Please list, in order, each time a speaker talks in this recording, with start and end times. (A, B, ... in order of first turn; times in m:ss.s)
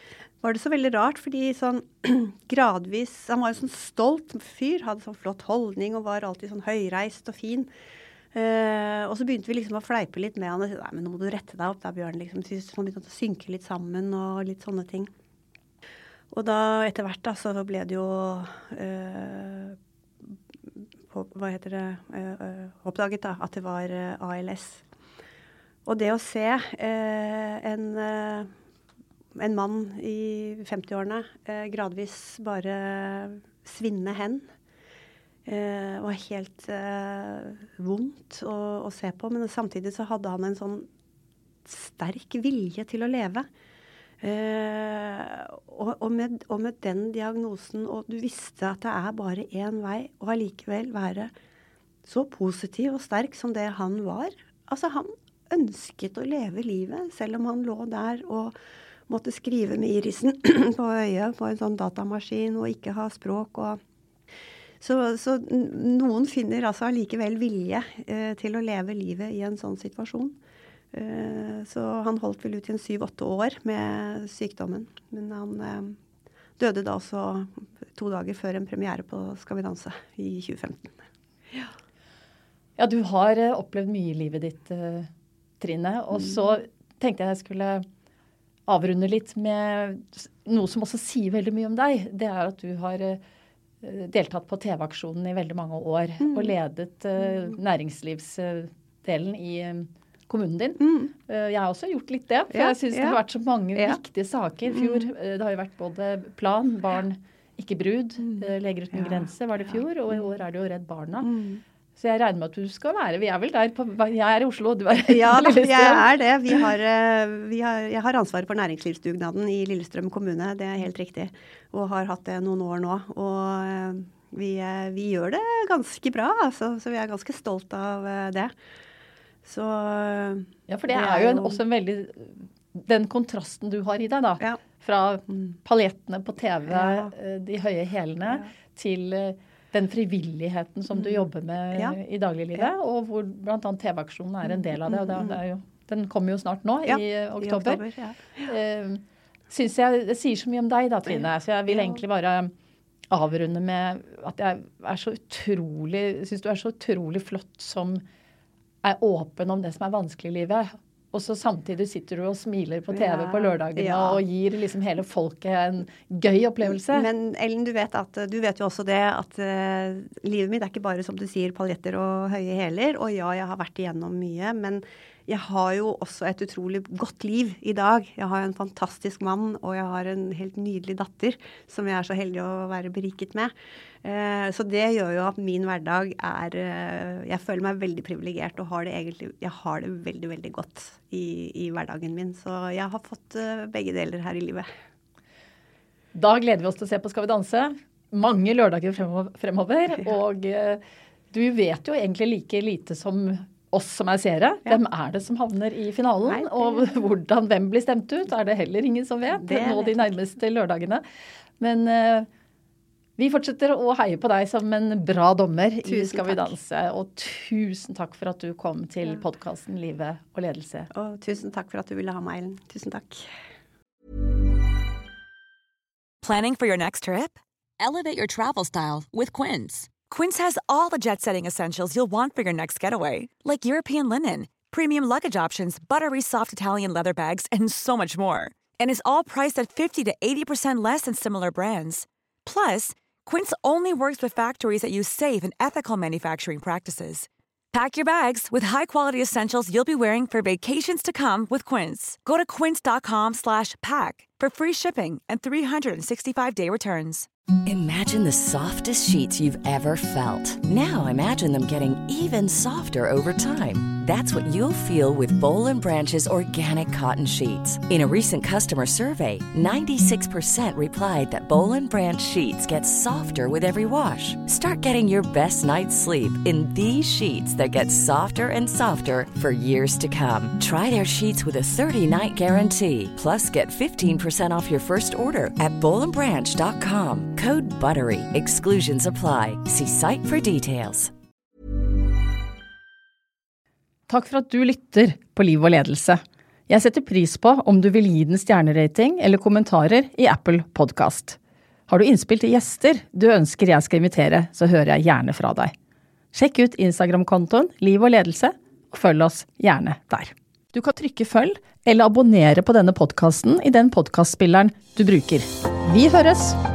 0:00.4-0:07.7 A
0:08.3-0:15.1 A
0:16.3-0:19.8 A
0:21.1-0:24.8 A
0:25.9-0:28.5 A
0:29.4-0:34.5 A
0:35.5-0:40.9 A
0:41.7-0:43.5 A
0:44.2-0:51.3 A
0:52.0-0:58.6 A
0:59.1-1:03.8 A
1:04.8-1:10.4 A
1:10.9-1:16.0 A
1:16.6-1:20.9 A
1:22.8-1:25.1 B
1:25.6-1:27.9 B
1:28.7-1:33.2 B
1:33.8-1:51.3 B
1:36.2-1:36.5 A
1:40.8-1:41.1 A
1:42.5-1:43.2 A
1:44.7-1:45.0 A
1:51.2-1:51.6 A
1:52.0-1:56.0 B
1:55.1-2:08.5 A
2:09.4-2:11.6 A
2:10.7-2:27.8 B
2:16.7-2:17.1 A
2:20.9-2:21.2 A
2:24.5-2:25.4 A
2:26.9-2:28.4 A
2:28.5-2:32.5 B
2:31.7-2:32.0 A
2:33.1-2:38.0 B
2:38.8-2:47.1 B
2:42.9-2:44.2 A
2:46.9-3:03.5 A
3:04.0-3:14.7 A
3:16.1-3:31.0 B
3:26.3-3:26.9 A
3:29.3-3:30.0 A
3:31.6-3:32.3 B
3:33.2-3:40.9 B
3:35.9-3:36.6 A
3:40.9-3:43.3 A
3:46.2-4:17.2 C
4:17.6-4:51.1 D
4:54.1-5:01.4 B
5:01.9-5:05.7 B
5:06.3-5:16.6 B